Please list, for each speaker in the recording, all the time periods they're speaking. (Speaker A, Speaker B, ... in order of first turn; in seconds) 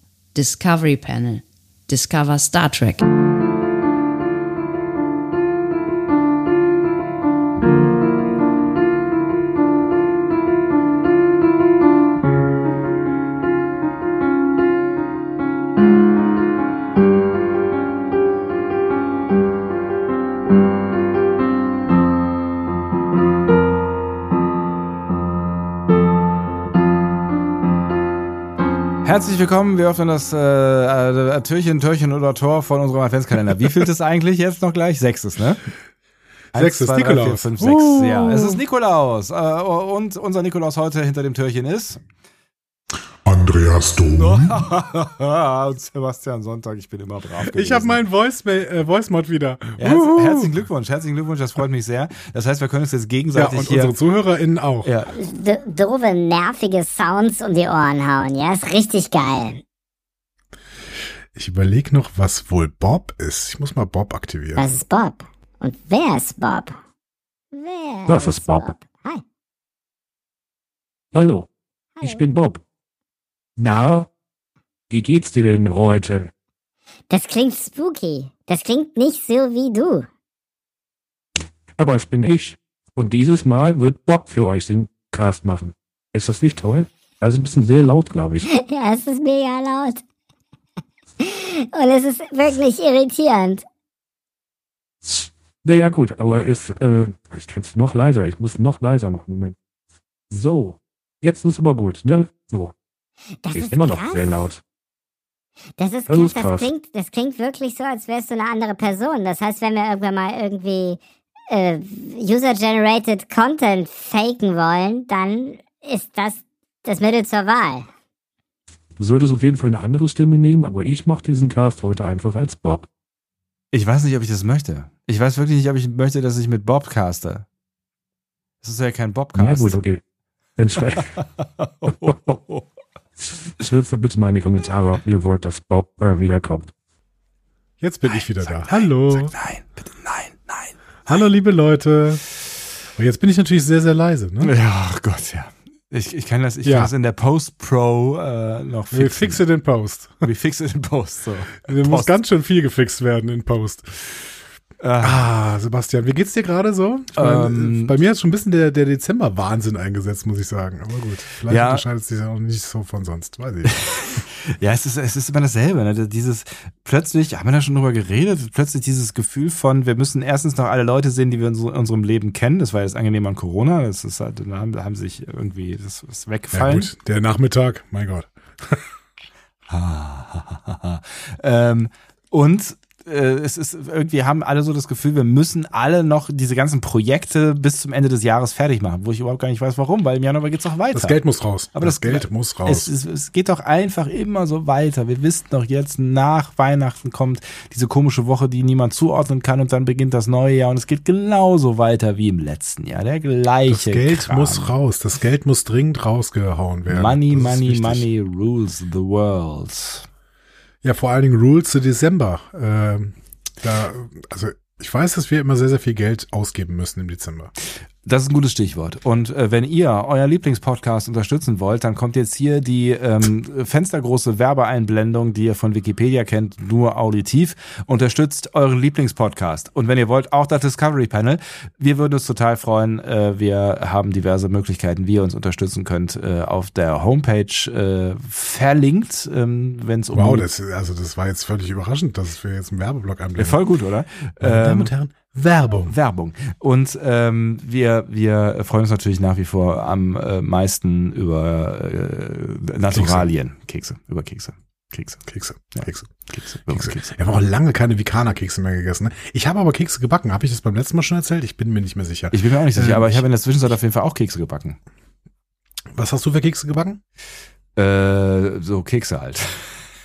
Speaker A: 0.3-3.0
Speaker B: 29.0-35.6, 36.5-42.0, 44.1-48.0, 49.8-53.9, 54.8-55.1, 123.7-127.4, 128.6-129.8, 131.8-132.6, 138.1-140.7, 144.4-149.4, 150.2-152.1, 154.8-155.3, 157.1-157.9, 161.5-161.8, 163.6-176.9, 179.7-191.2, 191.7-204.7, 206.9-210.1, 218.0-240.4, 243.4-244.9, 245.9-257.1, 262.3-264.8, 267.8-269.8
Speaker C: 36.5-38.6, 43.2-44.6, 47.4-50.5, 53.3-54.9, 61.3-64.7, 137.8-139.3, 141.1-142.2, 142.9-144.5, 146.6-146.9, 148.9-150.2, 151.6-154.3, 155.0-163.8, 176.5-178.8, 190.9-192.9, 203.7-208.1, 210.8-217.5, 240.1-243.6, 244.4-245.9, 252.9-253.3, 255.2-256.1, 256.7-263.2, 265.9-267.0
Speaker D: 55.1-59.6, 64.5-66.8, 67.5-69.2, 77.1-80.1, 88.5-90.0, 91.2-93.6, 103.4-104.2, 105.8-111.0, 111.5-117.9
Speaker E: 68.1-68.7, 71.1-71.5, 72.0-72.6, 73.6-74.1, 74.9-76.3, 81.8-88.5, 95.0-99.5, 100.3-102.7, 103.5-104.6, 106.1-106.7, 119.0-122.9, 129.3-130.0, 130.6-131.2, 131.8-132.4, 133.5-136.7